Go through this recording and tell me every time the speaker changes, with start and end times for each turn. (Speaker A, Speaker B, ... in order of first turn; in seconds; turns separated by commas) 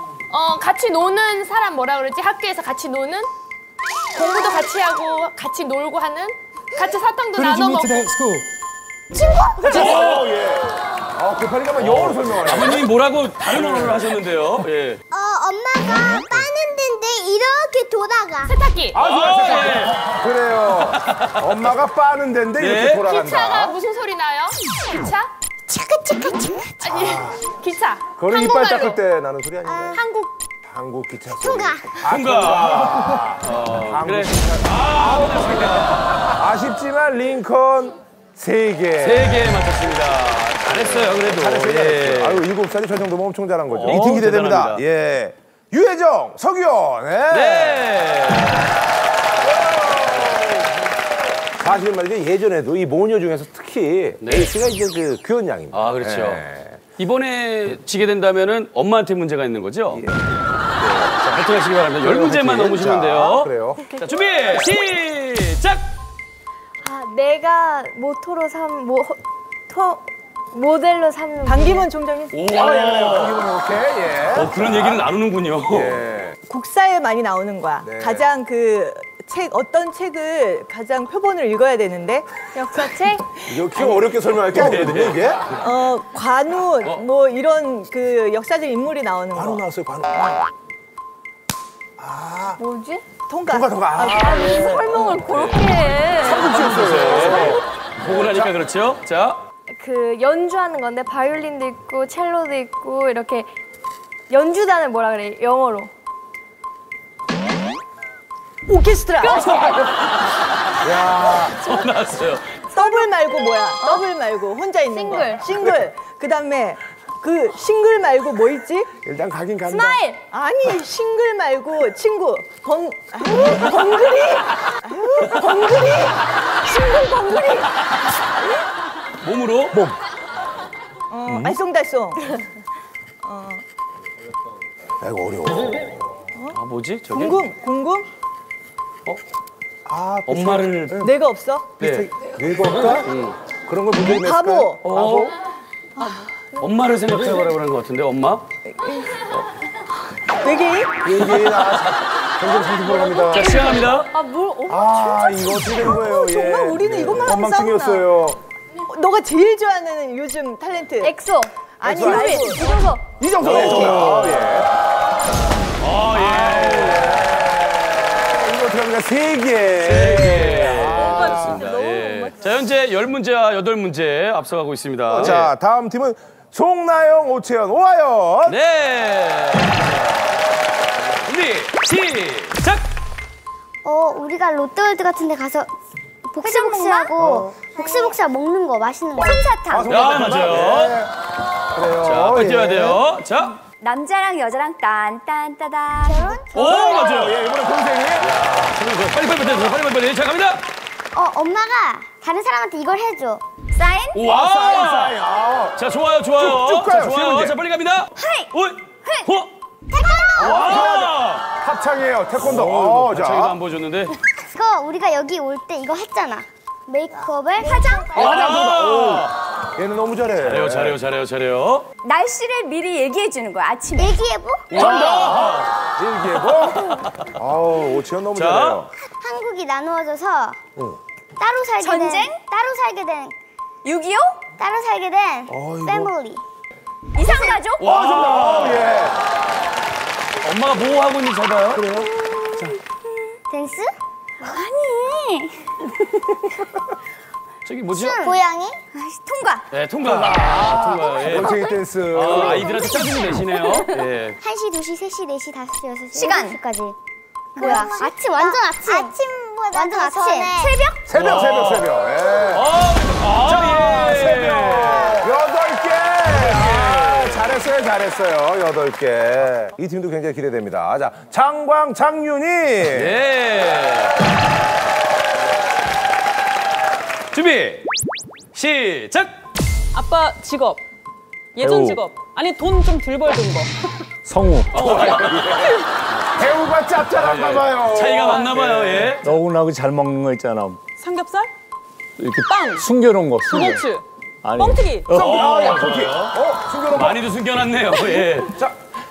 Speaker A: 0.3-3.3, Speaker A: 4.2-8.1, Speaker B: 7.5-8.1, Speaker B: 9.6-12.9, Speaker C: 9.7-10.2, Speaker C: 11.8-15.0, Speaker B: 13.6-14.0, Speaker D: 15.1-18.6, Speaker A: 18.5-18.9, Speaker B: 18.9-23.8, Speaker C: 19.0-19.9, Speaker C: 22.6-23.1, Speaker A: 23.3-25.3, Speaker B: 26.8-27.5, Speaker A: 27.6-28.8, Speaker B: 28.2-30.0, Speaker D: 29.7-30.0, Speaker B: 30.6-39.5, Speaker D: 31.4-32.0, Speaker C: 32.1-36.1, Speaker C: 39.0-42.5, Speaker B: 40.7-47.9, Speaker C: 43.8-44.8, Speaker C: 47.3-48.7, Speaker B: 49.9-50.4, Speaker B: 51.6-56.8, Speaker C: 54.2-54.5, Speaker C: 55.7-56.4, Speaker C: 57.0-60.0, Speaker B: 59.9-60.3, Speaker B: 60.8-61.4, Speaker C: 61.2-65.8, Speaker B: 62.0-63.9, Speaker E: 63.9-64.5, Speaker E: 66.8-71.9, Speaker F: 71.5-72.4, Speaker C: 72.3-73.4, Speaker B: 72.5-75.1, Speaker C: 74.3-76.0, Speaker B: 75.7-76.4, Speaker F: 76.5-82.3, Speaker B: 77.8-78.2, Speaker E: 82.5-83.2, Speaker B: 83.5-85.6, Speaker F: 83.6-84.1, Speaker C: 84.5-85.2, Speaker F: 85.6-89.6, Speaker B: 89.3-90.4, Speaker B: 92.0-92.6, Speaker E: 92.6-93.0, Speaker F: 93.3-95.1, Speaker B: 93.5-94.9, Speaker E: 94.1-96.6, Speaker C: 95.2-95.7, Speaker B: 96.2-98.6, Speaker C: 96.3-99.4, Speaker E: 99.8-103.5, Speaker E: 104.3-105.9, Speaker F: 108.7-109.5, Speaker E: 109.3-109.8, Speaker C: 109.4-110.3, Speaker B: 110.8-111.8, Speaker C: 111.6-112.5, Speaker E: 112.7-113.1, Speaker F: 112.7-118.9, Speaker E: 114.9-115.5, Speaker B: 119.0-120.0, Speaker E: 119.7-120.2, Speaker F: 120.3-127.7, Speaker C: 129.2-129.8, Speaker B: 129.7-130.0, Speaker F: 131.1-132.2, Speaker B: 131.3-131.6, Speaker F: 133.2-133.6, Speaker B: 135.0-135.9, Speaker C: 136.5-137.4, Speaker F: 137.1-138.1, Speaker B: 139.9-141.1, Speaker C: 140.3-141.1, Speaker F: 141.0-141.7, Speaker C: 141.8-142.1, Speaker B: 141.8-143.1, Speaker C: 143.1-143.3, Speaker B: 143.7-145.3, Speaker F: 144.0-144.8, Speaker C: 144.8-145.3, Speaker C: 146.6-148.4, Speaker F: 148.7-149.1, Speaker F: 150.4-151.0, Speaker B: 151.0-153.8, Speaker C: 151.4-151.9, Speaker E: 152.9-155.2, Speaker C: 153.3-154.1, Speaker B: 154.7-158.4, Speaker F: 155.5-158.1, Speaker F: 158.9-161.2, Speaker E: 161.0-163.0, Speaker F: 161.8-162.8, Speaker B: 161.8-162.4, Speaker B: 163.2-164.7, Speaker C: 163.4-164.7, Speaker C: 165.8-167.2, Speaker B: 166.1-171.8, Speaker C: 169.8-175.5, Speaker G: 171.0-172.5, Speaker B: 175.1-178.6, Speaker C: 178.5-180.2, Speaker C: 181.2-182.8, Speaker D: 183.8-185.7, Speaker D: 186.3-190.0, Speaker H: 186.5-187.0, Speaker H: 189.2-189.6, Speaker B: 189.7-191.1, Speaker C: 189.9-191.0, Speaker B: 191.7-193.0, Speaker C: 192.0-193.6, Speaker H: 193.7-196.6, Speaker D: 196.1-197.0, Speaker C: 196.5-197.4, Speaker B: 196.5-198.3, Speaker C: 198.2-200.7, Speaker D: 201.1-203.4, Speaker H: 203.7-204.2, Speaker C: 204.1-205.2, Speaker B: 204.2-205.8, Speaker C: 205.8-209.5, Speaker B: 206.3-207.6, Speaker H: 208.2-208.5, Speaker H: 209.0-209.3, Speaker D: 209.9-211.0, Speaker B: 210.4-213.6, Speaker C: 210.4-211.4, Speaker C: 212.4-214.2, Speaker D: 214.4-218.4, Speaker H: 217.6-218.7, Speaker B: 218.1-221.0, Speaker C: 218.2-219.3, Speaker C: 220.4-221.9, Speaker H: 222.0-224.2, Speaker D: 224.0-225.1, Speaker C: 224.7-225.7, Speaker B: 224.7-228.9, Speaker C: 228.3-228.8, Speaker D: 229.0-230.6, Speaker D: 231.4-233.3, Speaker H: 231.8-232.4, Speaker H: 233.8-234.4, Speaker D: 234.6-236.4, Speaker B: 235.5-236.1, Speaker H: 237.2-237.8, Speaker D: 237.2-237.6, Speaker C: 237.8-239.0, Speaker B: 237.8-239.2, Speaker C: 240.4-241.9, Speaker B: 241.7-242.8, Speaker D: 242.1-242.7, Speaker D: 243.5-243.9, Speaker H: 244.4-245.6, Speaker C: 247.7-248.4, Speaker D: 247.9-248.8, Speaker H: 248.9-249.6, Speaker C: 249.7-254.4, Speaker B: 250.0-252.8, Speaker D: 252.6-253.2, Speaker D: 254.4-257.0, Speaker H: 256.1-256.6, Speaker H: 257.6-259.1, Speaker D: 257.6-260.8, Speaker H: 259.7-261.0, Speaker B: 261.1-262.7, Speaker C: 261.1-261.9, Speaker C: 262.5-265.2, Speaker B: 263.3-273.2, Speaker D: 264.8-265.2, Speaker C: 266.4-267.5, Speaker C: 272.9-274.2, Speaker C: 277.3-277.9, Speaker C: 278.5-279.3, Speaker G: 279.9-280.8, Speaker G: 281.6-283.7, Speaker I: 281.6-282.0, Speaker I: 284.2-284.8, Speaker C: 284.8-285.4, Speaker B: 284.8-289.2, Speaker C: 287.2-289.3, Speaker I: 289.2-290.8, Speaker G: 291.0-291.5, Speaker I: 292.2-293.9, Speaker G: 292.4-292.8, Speaker G: 293.5-294.0, Speaker I: 294.4-295.0, Speaker G: 294.6-295.1, Speaker B: 295.1-297.2, Speaker C: 295.1-296.4, Speaker C: 296.9-298.6